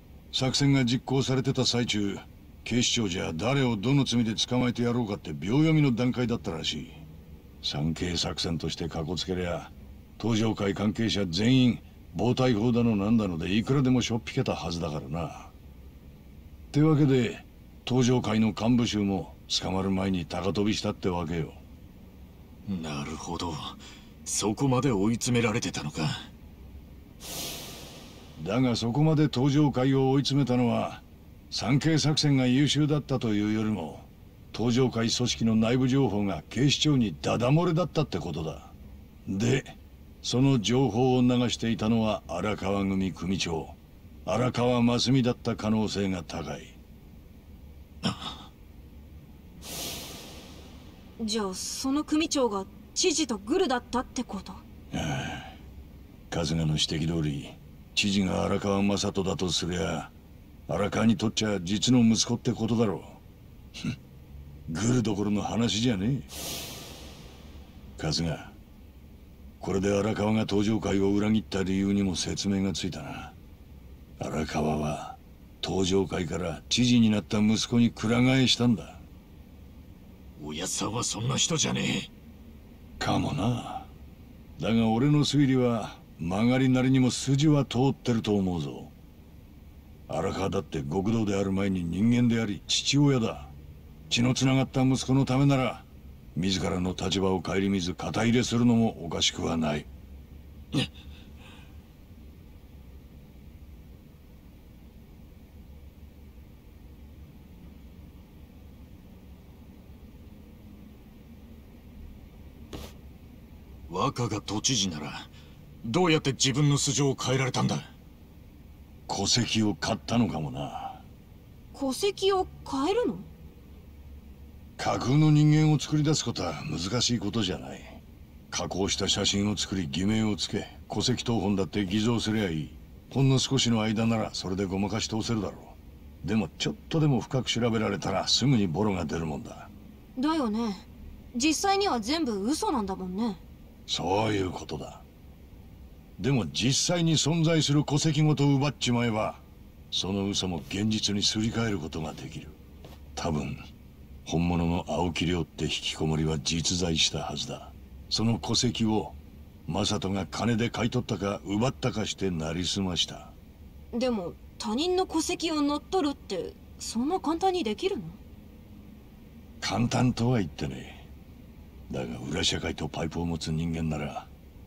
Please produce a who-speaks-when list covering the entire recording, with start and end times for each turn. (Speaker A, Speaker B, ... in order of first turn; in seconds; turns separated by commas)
Speaker A: 0.3-7.0, Speaker A: 7.6-15.5, Speaker A: 16.7-21.6, Speaker B: 22.7-26.3, Speaker A: 28.4-38.7, Speaker A: 39.2-46.8, Speaker B: 48.0-48.5, Speaker C: 51.2-54.6, Speaker A: 54.9-55.6, Speaker A: 56.3-60.1, Speaker A: 60.7-63.2, Speaker A: 64.7-66.3, Speaker A: 68.0-68.5, Speaker A: 69.6-73.3, Speaker A: 74.2-79.0, Speaker B: 80.4-82.1, Speaker A: 83.0-83.9, Speaker A: 84.6-88.9, Speaker A: 90.1-93.5, Speaker A: 94.1-99.9, Speaker B: 113.9-115.3, Speaker B: 115.8-117.9, Speaker A: 119.1-121.0, Speaker C: 121.7-123.3, Speaker A: 124.8-128.0, Speaker A: 128.5-139.7, Speaker C: 140.2-143.4, Speaker A: 143.9-145.0, Speaker A: 146.2-152.6, Speaker A: 153.2-153.6, Speaker A: 154.2-163.3, Speaker C: 163.9-168.2, Speaker A: 169.6-171.1, Speaker A: 171.9-174.3